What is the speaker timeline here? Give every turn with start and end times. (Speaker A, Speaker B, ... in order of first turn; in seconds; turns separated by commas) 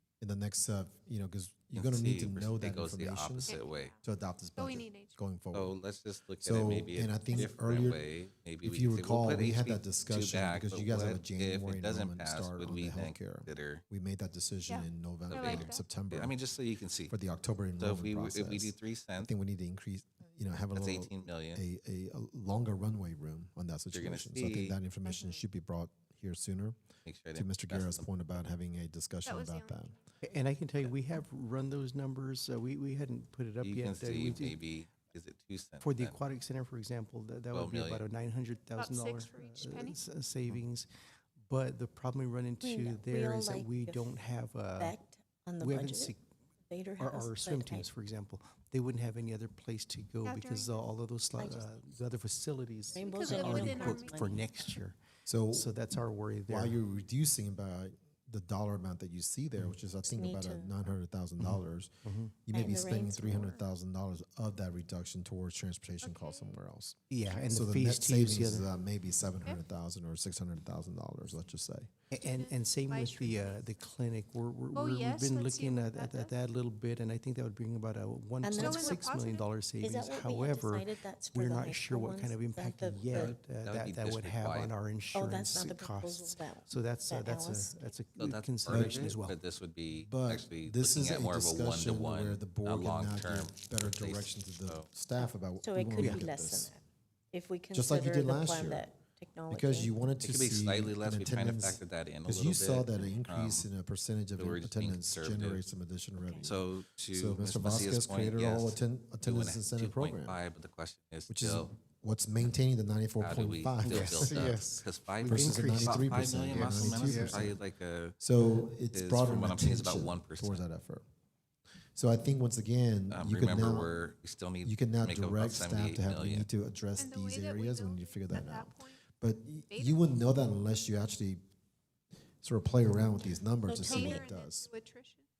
Speaker A: 0.2-5.8, Speaker B: 1.7-3.9, Speaker C: 3.4-4.0, Speaker C: 4.5-5.2, Speaker B: 5.5-13.8, Speaker A: 6.4-8.1, Speaker A: 8.6-16.4, Speaker C: 14.7-15.9, Speaker B: 15.3-17.1, Speaker A: 17.1-26.8, Speaker B: 17.8-19.3, Speaker B: 20.7-21.6, Speaker B: 23.9-24.8, Speaker B: 27.0-28.1, Speaker A: 27.3-29.9, Speaker C: 29.2-30.0, Speaker D: 30.2-34.6, Speaker B: 33.6-36.2, Speaker D: 35.8-40.9, Speaker B: 37.5-38.0, Speaker C: 38.7-40.0, Speaker D: 41.5-45.0, Speaker E: 42.6-44.1, Speaker E: 44.8-46.1, Speaker D: 45.6-46.2, Speaker E: 46.7-47.9, Speaker D: 47.0-55.0, Speaker C: 50.2-50.9, Speaker E: 51.4-51.7, Speaker E: 52.9-54.3, Speaker C: 52.9-54.8, Speaker A: 55.2-55.8, Speaker D: 55.5-56.8, Speaker A: 56.5-67.0, Speaker E: 60.0-60.7, Speaker D: 61.4-62.4, Speaker E: 62.5-63.5, Speaker C: 63.3-63.6, Speaker C: 66.0-66.6, Speaker D: 67.1-68.7, Speaker A: 67.5-71.9, Speaker D: 72.1-89.4, Speaker C: 72.2-73.9, Speaker C: 74.7-76.3, Speaker E: 78.4-79.0, Speaker C: 78.5-79.7, Speaker E: 79.8-83.4, Speaker B: 83.1-84.7, Speaker E: 85.1-87.8, Speaker B: 88.2-94.9, Speaker A: 88.7-89.2, Speaker A: 89.9-96.7, Speaker E: 95.2-96.8, Speaker D: 96.0-96.2, Speaker E: 97.3-100.1, Speaker A: 97.7-98.9, Speaker A: 99.5-110.4, Speaker B: 100.2-103.7, Speaker B: 104.3-105.6, Speaker E: 106.2-106.5, Speaker B: 106.4-111.7, Speaker A: 111.3-117.6, Speaker B: 113.2-118.3, Speaker D: 113.8-117.5, Speaker A: 118.2-121.0, Speaker B: 118.9-120.6, Speaker A: 121.9-123.9, Speaker B: 123.1-126.5, Speaker A: 124.6-131.4, Speaker C: 127.0-129.1, Speaker C: 129.7-130.2, Speaker A: 132.4-134.7, Speaker E: 133.7-134.2, Speaker C: 133.8-135.2